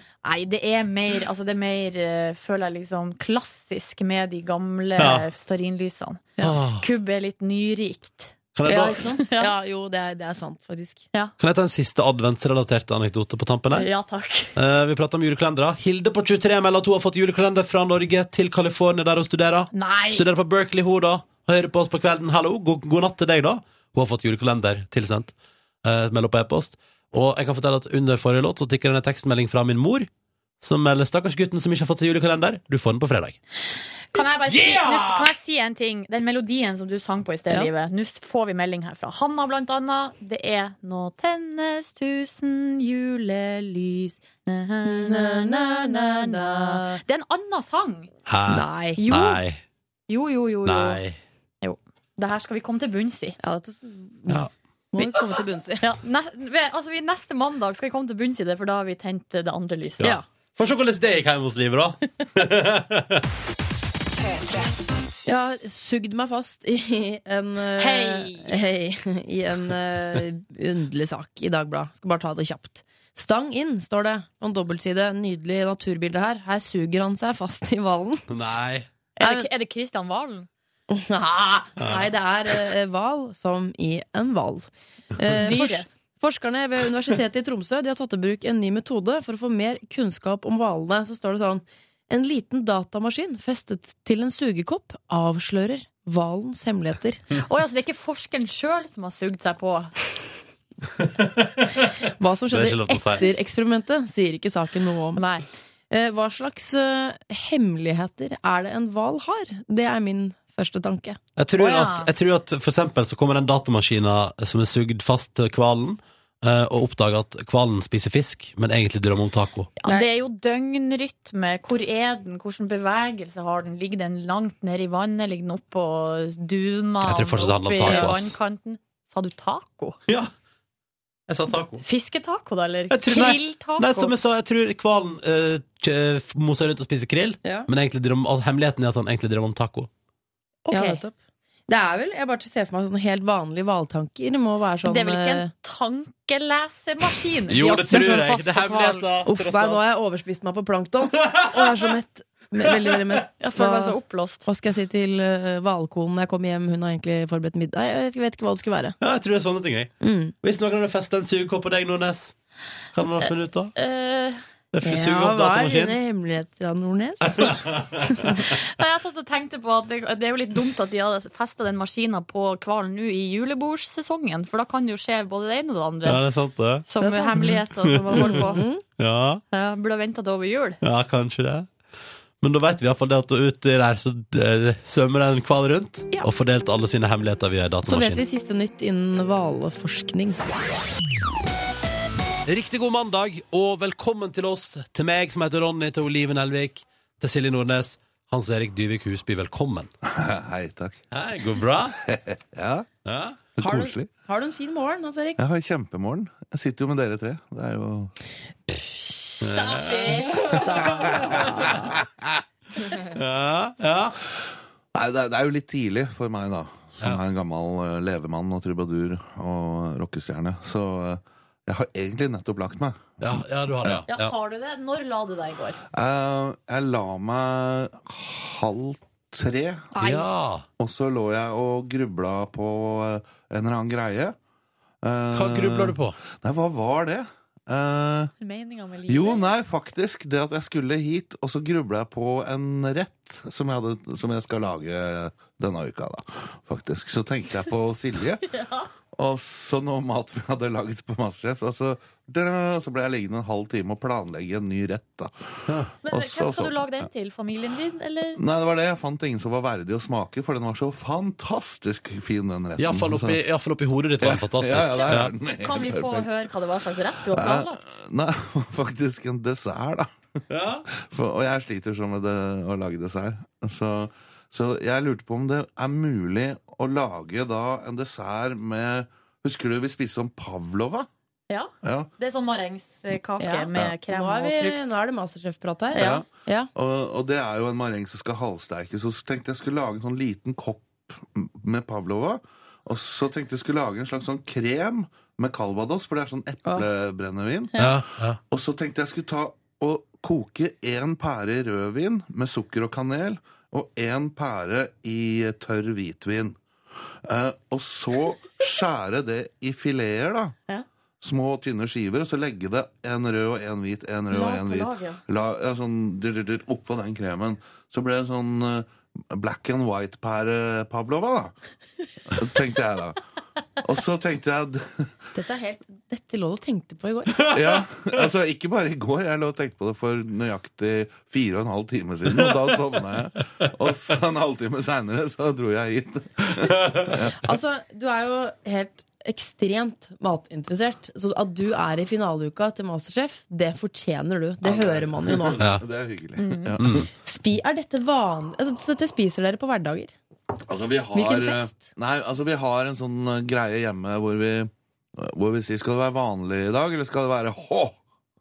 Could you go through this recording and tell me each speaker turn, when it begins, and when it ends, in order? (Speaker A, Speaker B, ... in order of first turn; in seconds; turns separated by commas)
Speaker A: 0.2-9.5, Speaker B: 5.0-5.3, Speaker B: 6.4-6.8, Speaker B: 8.5-9.1, Speaker C: 8.7-11.0, Speaker B: 11.4-13.9, Speaker A: 13.7-14.5, Speaker B: 14.6-25.3, Speaker A: 19.7-20.2, Speaker B: 25.8-30.1, Speaker B: 30.6-33.4, Speaker A: 34.1-48.1, Speaker B: 34.5-35.3, Speaker C: 44.8-47.0, Speaker B: 48.3-49.6, Speaker C: 48.5-49.0, Speaker A: 49.0-49.4, Speaker A: 50.1-51.0, Speaker B: 50.6-51.2, Speaker A: 51.6-53.4, Speaker C: 53.4-55.8, Speaker B: 54.3-55.1, Speaker A: 55.8-60.1, Speaker C: 60.0-60.2, Speaker B: 60.0-63.2, Speaker C: 65.2-78.2, Speaker A: 67.8-68.6, Speaker B: 78.3-78.9, Speaker A: 79.2-80.5, Speaker C: 79.2-79.5, Speaker C: 80.9-97.2, Speaker A: 85.4-85.8, Speaker A: 97.3-99.9, Speaker B: 101.4-101.9, Speaker C: 102.0-105.2, Speaker B: 102.5-103.2, Speaker A: 105.2-105.5, Speaker C: 105.9-111.2, Speaker B: 111.4-119.7, Speaker A: 111.5-112.1, Speaker A: 119.8-130.0, Speaker B: 127.0-128.3, Speaker C: 127.8-128.1, Speaker B: 131.3-131.8, Speaker A: 131.8-134.1, Speaker B: 132.9-139.9, Speaker A: 140.7-141.0, Speaker C: 140.7-141.1, Speaker C: 141.7-145.5, Speaker A: 144.8-149.1, Speaker B: 147.5-149.8, Speaker C: 147.6-148.6, Speaker C: 149.2-159.0, Speaker B: 151.3-151.8, Speaker A: 153.4-154.5, Speaker B: 159.0-162.3, Speaker C: 160.0-160.3, Speaker B: 162.9-163.7, Speaker A: 163.2-164.4, Speaker B: 164.7-165.9, Speaker C: 164.8-167.6, Speaker B: 167.2-168.2, Speaker A: 168.3-176.2, Speaker B: 176.0-176.8, Speaker A: 176.9-178.6, Speaker C: 177.0-178.8, Speaker B: 177.4-178.4, Speaker B: 179.0-179.4, Speaker A: 179.5-180.8, Speaker B: 180.8-181.7, Speaker B: 182.4-188.2, Speaker C: 187.8-190.4, Speaker B: 192.5-199.9, Speaker D: 200.0-201.0, Speaker B: 201.1-202.0, Speaker D: 202.0-202.9, Speaker B: 203.1-203.4, Speaker D: 203.6-204.1, Speaker C: 203.6-205.4, Speaker D: 205.4-208.1, Speaker C: 208.7-211.7, Speaker B: 209.4-211.7, Speaker A: 209.7-210.4, Speaker D: 211.3-212.2, Speaker B: 213.0-214.2, Speaker D: 214.9-224.0, Speaker B: 223.2-224.3, Speaker A: 224.1-225.8, Speaker D: 225.9-229.9, Speaker C: 229.9-230.3, Speaker B: 230.0-230.7, Speaker D: 230.8-234.3, Speaker D: 235.0-238.3, Speaker B: 235.3-236.2, Speaker A: 238.4-239.5, Speaker D: 239.1-248.5, Speaker A: 248.5-248.9, Speaker D: 249.1-255.3, Speaker A: 256.0-258.4, Speaker D: 256.1-257.1, Speaker D: 258.4-263.4, Speaker B: 262.8-265.3, Speaker D: 264.2-266.3, Speaker A: 265.6-267.8, Speaker D: 267.3-270.2, Speaker B: 270.5-270.8, Speaker D: 270.9-281.1, Speaker A: 281.5-284.9, Speaker D: 281.8-282.1, Speaker C: 283.4-286.7, Speaker A: 285.9-286.2, Speaker D: 285.9-297.8, Speaker B: 297.8-298.4, Speaker D: 298.5-306.6, Speaker D: 307.2-310.6, Speaker D: 311.2-321.5, Speaker A: 314.3-315.2, Speaker D: 322.3-323.2, Speaker D: 323.8-325.1, Speaker C: 325.3-327.5, Speaker B: 327.4-327.8, Speaker D: 327.5-337.4, Speaker B: 332.3-332.8, Speaker C: 337.4-345.6, Speaker D: 344.6-347.1, Speaker B: 345.6-345.8, Speaker A: 346.4-346.7, Speaker B: 346.8-347.1, Speaker C: 347.2-350.1, Speaker D: 350.7-358.0, Speaker C: 351.1-351.9